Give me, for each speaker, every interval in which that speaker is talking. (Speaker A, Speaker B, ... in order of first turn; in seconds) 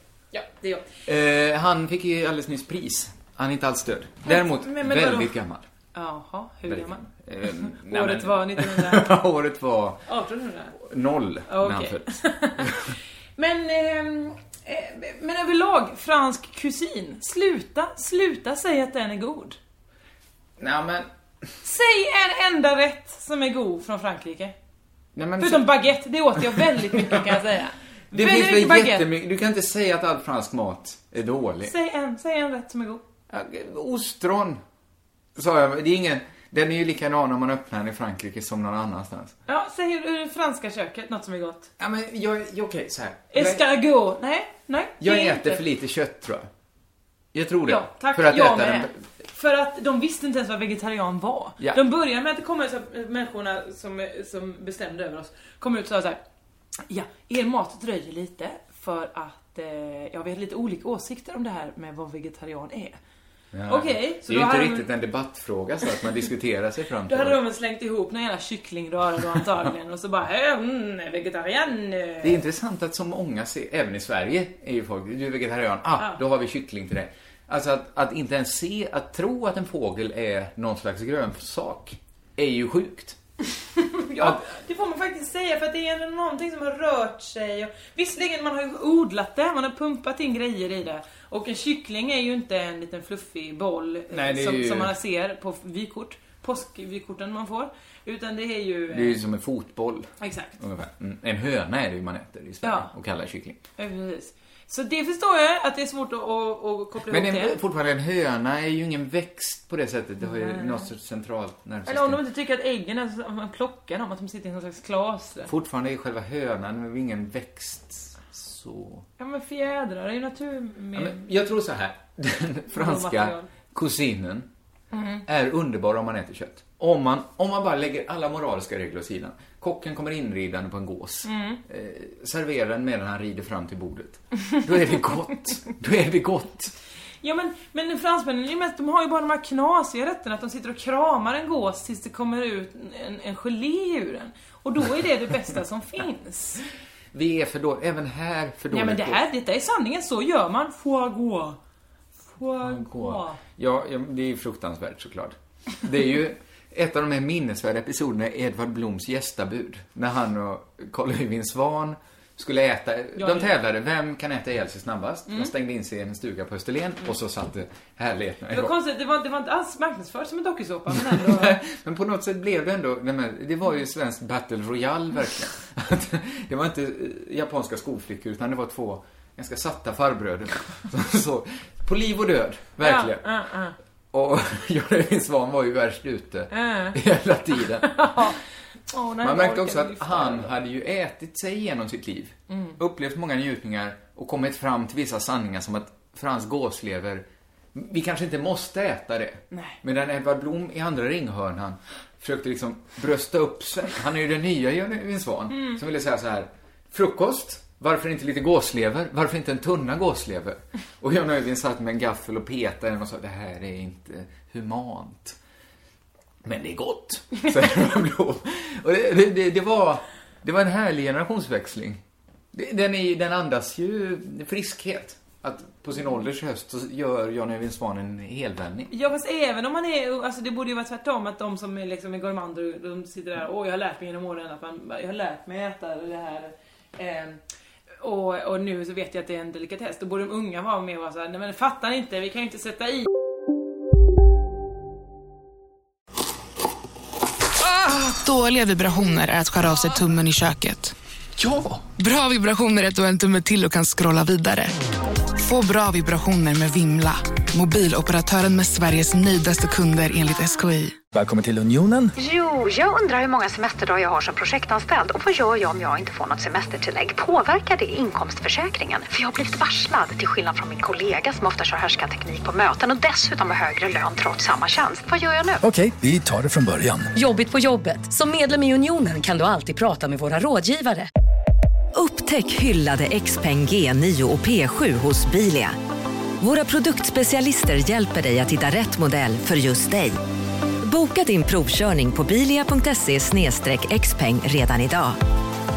Speaker A: 0.3-0.9, 4.3-5.3, 5.9-7.1, 7.6-9.1, 10.1-10.8, 11.5-19.6, 21.6-24.6, 25.4-29.1, 31.6-33.0, 39.5-41.7, 43.3-45.6, 47.7-56.2, 56.9-63.0, 63.7-64.9, 67.1-72.4, 83.6-99.2, 100.2-100.6, 102.6-102.9, 103.8-107.6, 110.2-110.9, 111.9-115.5, 119.2-121.2, 122.7-123.5, 124.9-125.2, 131.2-131.6, 137.2-146.6, 148.7-151.6, 152.3-153.4, 163.2-163.6, 168.5-171.6, 182.8-183.8, 186.5-187.0, 187.8-188.4, 188.9-190.5, 192.5-192.8, 199.5-199.8, 205.5-205.8, 228.9-237.4, 238.0-243.1
Speaker B: 1.1-5.7, 6.7-10.1, 10.8-12.8, 20.6-21.1, 25.1-25.8, 26.4-27.4, 28.1-31.7, 33.3-34.6, 35.4-39.4, 41.8-43.6, 45.0-46.5, 47.3-49.0, 63.5-67.4, 72.2-83.2, 94.1-94.9, 98.9-103.6, 107.1-112.2, 115.5-119.1, 121.0-124.5, 125.3-136.7, 147.1-149.2, 152.6-168.7, 170.9-183.2, 184.1-188.4, 189.2-215.4, 216.4-222.0, 222.5-228.9
Speaker C: 247.6-250.9, 251.9-254.8, 255.4-261.0
Speaker D: 251.4-251.9, 261.1-262.1, 275.6-277.1
Speaker E: 262.2-275.6
Speaker F: 281.9-285.8, 286.4-290.2, 290.8-295.2